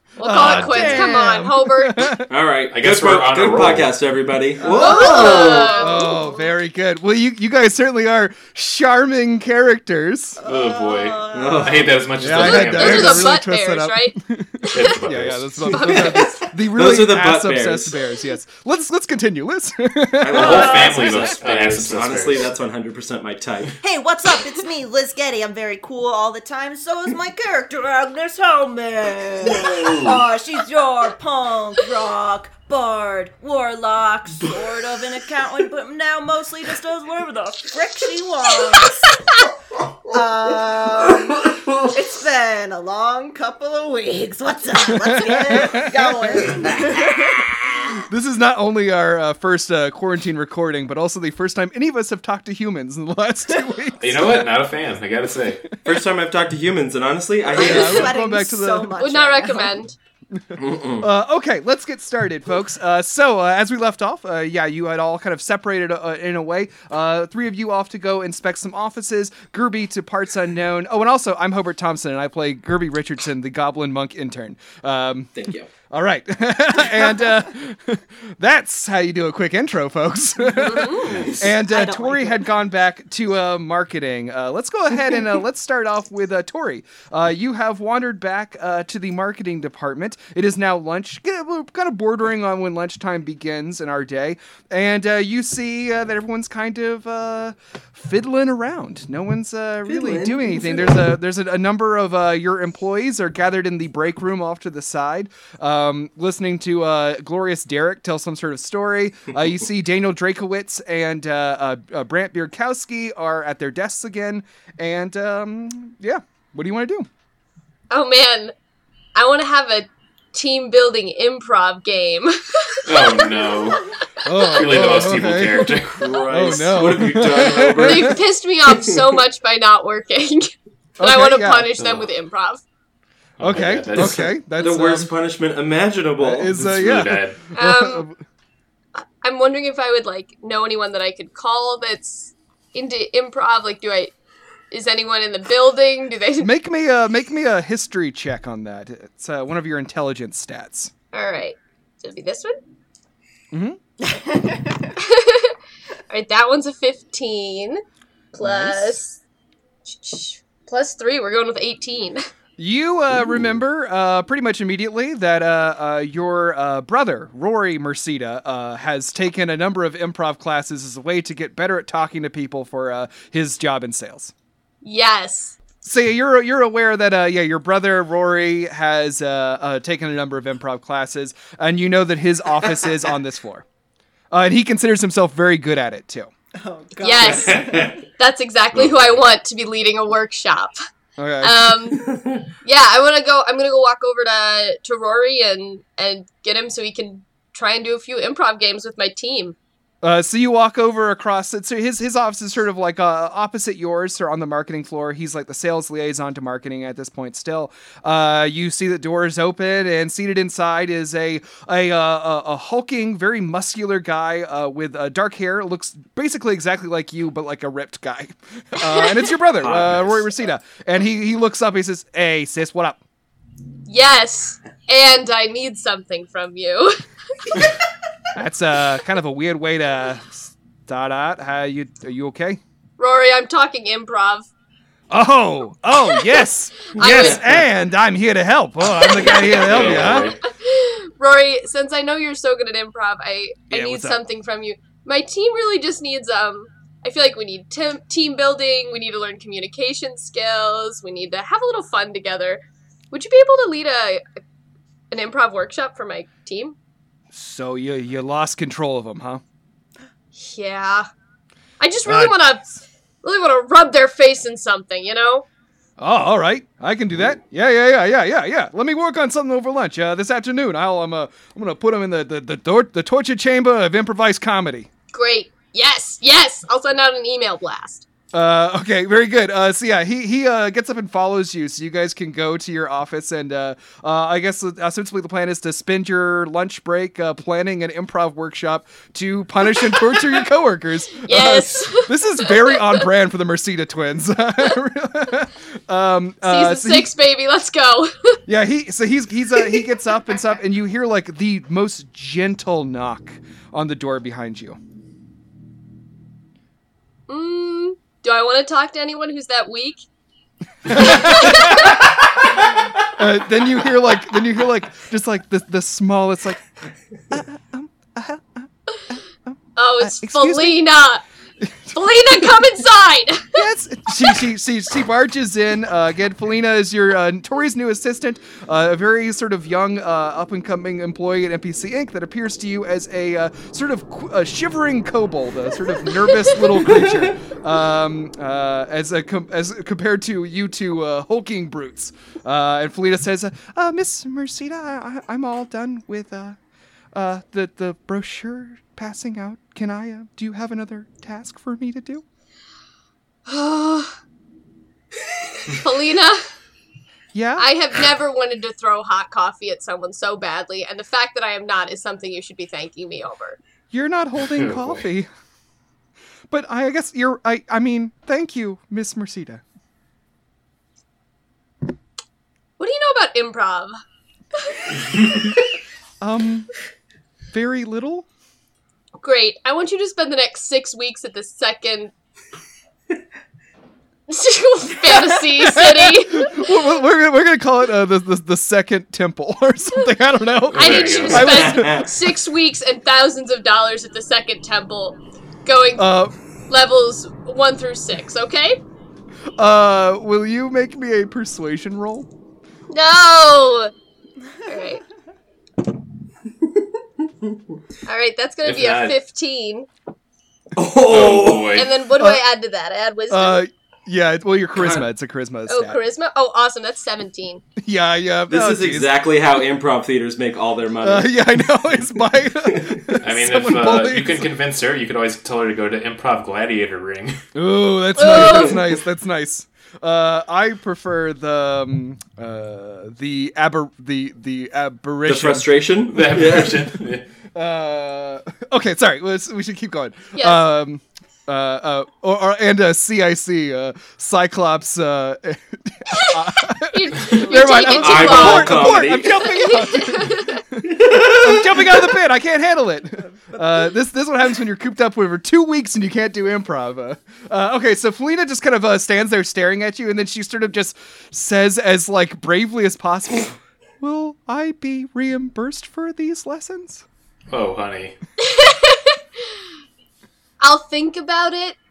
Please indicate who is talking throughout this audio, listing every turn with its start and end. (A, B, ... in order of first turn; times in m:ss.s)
0:00.2-0:02.2 A
0:00.2-0:02.3 B
0:00.4-0:01.0 C
0:02.3-0:05.7 D
0:02.7-0:04.0 C
0:04.6-0:06.0 E
0:04.7-0:06.4 A
0:05.8-0:10.4 B
0:10.4-0:11.9 E
0:10.4-0:13.3 C
0:11.3-0:12.1 D
0:12.2-0:21.3 B
0:12.4-0:14.9 A
0:14.7-0:15.7 C
0:15.7-0:16.5 A
0:16.6-0:18.0 D
0:20.2-0:23.8 D
0:20.3-0:22.5 C
0:20.6-0:20.9 E
0:23.8-0:39.2 E
0:29.5-0:30.2 C
0:40.1-0:47.5 E
0:44.8-0:46.5 B
0:48.1-0:54.5 B
0:54.0-0:55.7 C
0:55.7-0:56.0 B
0:55.8-0:58.2 D
0:57.4-0:59.8 E
0:57.5-0:58.9 B
0:59.0-1:00.0 A
1:00.6-1:01.1 D
1:01.0-1:15.3 B
1:15.4-1:15.7 D
1:15.9-1:57.1 B
1:20.6-1:21.1 A
1:21.0-1:22.5 E
1:39.9-1:41.1 D
1:57.9-1:58.5 A
1:59.2-2:03.2 A
2:02.9-2:03.9 C
2:04.2-2:08.2 B
2:04.5-2:06.2 C
2:05.8-2:09.2 D
2:07.8-2:12.6 A
2:11.0-2:11.7 B
2:11.8-2:12.1 C
2:13.4-2:14.3 C
2:13.4-2:15.1 B
2:14.0-2:16.5 D
2:16.2-2:18.2 B
2:16.5-2:17.4 C
2:17.6-2:18.1 A
2:19.0-2:24.1 A
2:24.7-2:26.5 A
2:26.4-2:30.9 B
2:31.1-2:32.6 A
2:33.5-2:33.8 B
2:34.1-2:34.8 E
2:35.0-2:35.5 A
2:36.1-2:37.8 A
2:38.3-2:39.2 A
2:38.4-2:39.0 B
2:39.9-2:42.2 A
2:42.6-2:54.3 B
2:54.8-2:55.6 A
2:55.8-3:03.6 B
3:04.3-3:06.3 B
3:06.6-3:08.0 E
3:07.0-3:10.8 A
3:07.2-3:08.0 D
3:08.7-3:09.2 C
3:11.2-3:11.8 B
3:11.4-3:12.1 A
3:12.0-3:12.4 D
3:12.6-3:19.6 A
3:20.0-3:43.0 B
3:38.8-3:39.3 A
3:39.6-3:40.2 D
3:43.9-3:47.6 A
3:48.3-3:52.6 B
3:53.0-3:54.5 A
3:55.1-4:00.3 B
3:56.0-3:56.4 A
3:56.9-3:57.5 A
3:57.0-3:57.3 D
3:59.0-4:12.6 A
3:59.5-4:00.4 C
4:03.7-4:04.2 B
4:13.1-4:14.2 A
4:15.1-4:16.8 A
4:17.3-4:19.4 B
4:20.4-4:21.1 A
4:21.8-4:25.4 A
4:22.1-4:22.4 B
4:26.0-4:34.9 B
4:35.1-4:38.1 A
4:38.3-4:57.1 B
4:51.2-4:52.9 A
4:51.4-4:51.7 C
4:56.4-4:58.4 A
4:58.5-5:04.8 B
5:07.3-5:10.0 A
5:10.9-5:12.1 B
5:10.9-5:12.0 A
5:13.0-5:16.6 B
5:17.3-5:20.8 B
5:19.8-5:21.2 A
5:21.9-5:23.6 A
5:23.5-5:46.6 B
5:47.1-5:52.2 B
5:53.5-5:54.2 A
5:55.7-5:56.4 A
5:57.3-5:57.7 B
5:57.6-6:03.6 A
6:03.9-6:05.3 B
6:04.6-6:05.0 C
6:06.5-6:09.6 B
6:12.8-6:13.9 A
6:14.6-6:15.6 A
6:16.2-6:16.7 B
6:17.5-6:18.3 B
6:19.2-6:22.1 A
6:24.3-6:26.8 A
6:25.4-6:32.1 B
6:30.7-6:31.8 C
6:30.7-6:36.2 A
6:31.3-6:32.1 D
6:36.0-6:36.3 B
6:36.7-6:38.8 A
6:39.6-6:42.3 B
6:42.9-6:43.9 A
6:44.6-6:45.0 A
6:48.1-6:49.9 A
6:48.6-6:49.2 C
6:50.8-6:51.8 D
6:51.0-6:51.9 C
6:51.7-6:53.6 A
6:52.1-6:52.4 B
6:53.3-6:56.0 B
6:54.8-6:55.1 D
6:55.7-6:57.6 A
6:57.8-6:59.1 B
6:58.5-7:01.4 D
7:01.0-7:04.5 B
7:02.6-7:03.0 D
7:03.2-7:07.4 C
7:07.6-7:15.7 B
7:08.2-7:08.8 A
7:15.3-7:16.8 D
7:16.1-7:17.3 C
7:17.6-7:47.0 B
7:20.4-7:20.6 A
7:26.2-7:30.6 A
7:27.7-7:29.7 D
7:30.8-7:31.8 D
7:47.5-7:48.2 C
7:48.4-7:49.2 A
7:50.6-7:51.8 A